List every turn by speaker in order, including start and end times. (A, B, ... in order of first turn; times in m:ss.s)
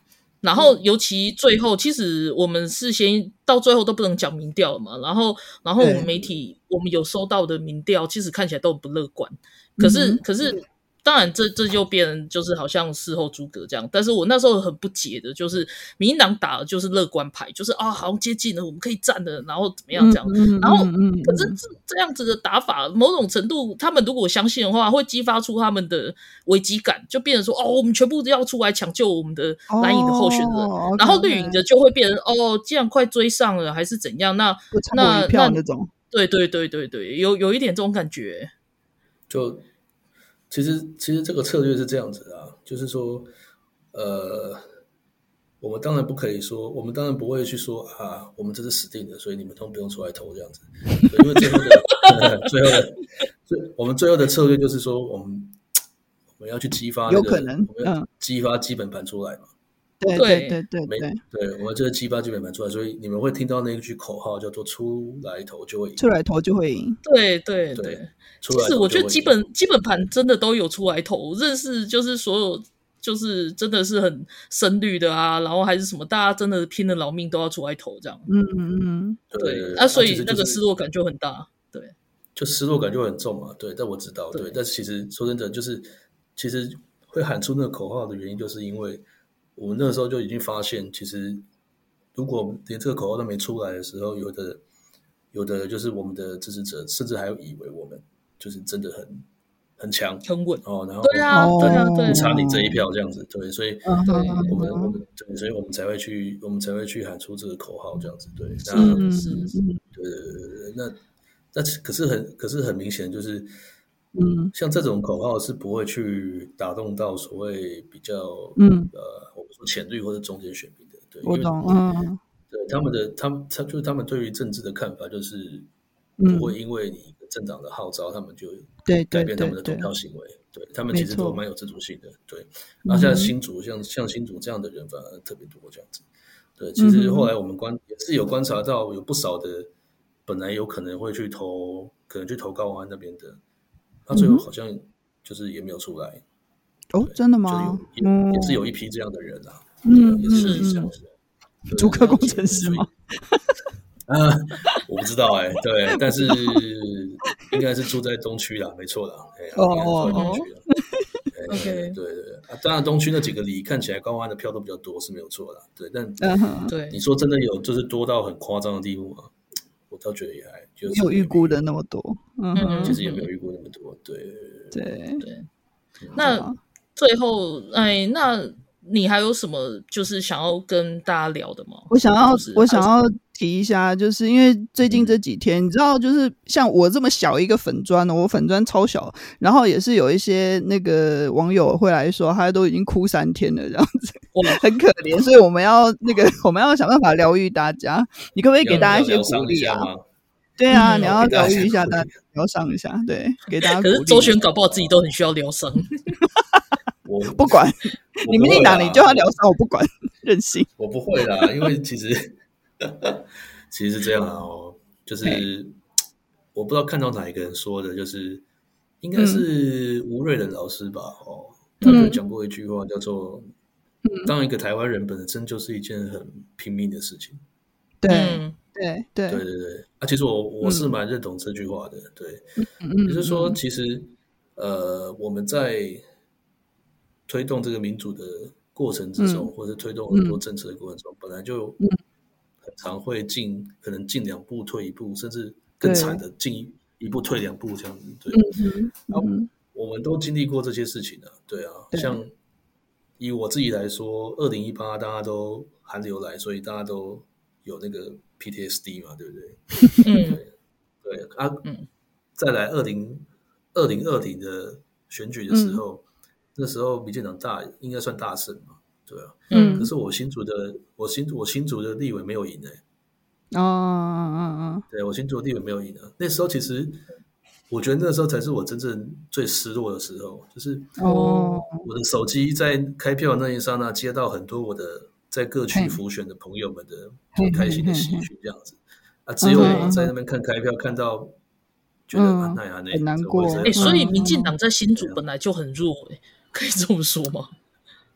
0:00.4-0:38.5 A
0:05.8-0:06.1 B
0:09.8-0:10.2 B
0:20.0-0:21.6 B
0:29.7-0:31.6 B
0:34.7-0:35.9 B
0:39.3-0:39.6 C
0:40.5-0:43.3 C
0:43.9-0:44.6 C
0:45.6-0:55.6 C
0:56.4-0:59.5 C
0:57.1-0:58.1 B
1:00.0-1:01.2 B
1:00.1-1:00.6 A
1:00.9-1:06.0 C
1:06.0-1:07.0 B
1:07.0-1:18.3 A
1:07.8-1:09.4 C
1:18.3-1:19.2 B
1:19.3-1:20.6 C
1:19.4-1:21.9 A
1:22.4-1:29.0 C
1:29.6-1:31.4 C
1:32.1-1:34.6 C
1:35.3-1:39.2 C
1:39.8-1:49.1 C
1:40.2-1:42.3 A
1:41.3-1:42.8 B
1:43.8-1:44.9 B
1:44.0-1:44.6 A
1:48.7-1:49.6 A
1:48.7-1:49.8 B
1:49.9-1:51.0 C
1:51.5-1:53.5 C
1:54.1-1:54.5 B
1:54.5-2:01.6 C
1:58.6-1:58.9 B
2:01.2-2:02.2 B
2:02.5-2:05.7 C
2:06.2-2:06.5 B
2:06.2-2:16.0 C
2:08.9-2:09.9 B
2:10.9-2:11.4 B
2:12.9-2:13.3 B
2:16.6-2:19.7 C
2:16.8-2:17.3 B
2:20.3-2:23.4 C
2:24.0-2:26.2 C
2:24.1-2:24.4 B
2:26.9-2:28.6 B
2:27.0-2:31.1 C
2:29.8-2:30.9 B
2:30.3-2:30.8 A
2:31.7-2:32.9 C
2:31.7-2:33.4 B
2:34.1-2:40.6 C
2:36.0-2:36.6 B
2:39.6-2:41.0 B
2:40.1-2:40.4 A
2:41.3-2:46.3 C
2:41.5-2:42.0 A
2:46.2-2:46.7 B
2:46.7-2:47.0 A
2:46.9-2:49.3 C
2:49.9-2:51.6 C
2:50.9-2:53.0 B
2:52.6-2:53.3 A
2:52.8-2:54.8 C
2:54.7-2:55.2 B
2:55.2-2:55.5 A
2:56.2-3:02.9 A
2:56.2-2:56.6 B
3:01.9-3:19.9 B
3:04.9-3:05.2 C
3:14.3-3:14.6 A
3:18.6-3:20.0 C
3:20.6-3:24.4 B
3:20.7-3:21.2 A
3:20.8-3:22.1 C
3:23.8-3:26.2 A
3:24.1-3:24.9 C
3:27.0-3:27.6 C
3:27.3-3:30.7 B
3:28.2-3:29.3 C
3:30.8-3:35.7 C
3:36.5-3:38.4 C
3:39.0-3:43.5 C
3:39.2-3:39.4 B
3:41.8-3:42.2 B
3:44.0-3:44.3 B
3:44.2-3:47.4 C
3:48.0-3:49.4 B
3:48.1-3:48.6 A
3:49.3-3:52.5 C
3:50.6-3:50.9 B
3:52.6-3:53.6 B
3:53.0-3:56.0 C
3:57.3-4:01.8 C
3:59.2-3:59.5 B
4:00.1-4:00.4 B
4:02.6-4:08.4 C
4:05.8-4:06.2 B
4:08.3-4:09.5 B
4:09.1-4:12.3 C
4:11.9-4:12.2 B
4:13.2-4:20.5 C
4:20.0-4:20.4 A
4:21.0-4:21.6 C
4:22.4-4:26.0 C
4:25.5-4:25.8 B
4:26.6-4:32.8 C
4:29.5-4:29.9 A
4:29.5-4:29.9 B
4:33.5-4:34.8 B
4:34.9-4:37.0 C
4:37.7-4:51.3 C
4:41.0-4:41.8 B
4:41.0-4:41.6 A
4:45.7-4:46.0 B
4:47.4-4:48.3 B
4:49.4-4:50.1 B
4:49.6-4:49.9 A
4:52.1-4:54.1 C
4:52.1-4:54.5 B
4:53.6-4:57.5 A
4:55.0-4:55.2 C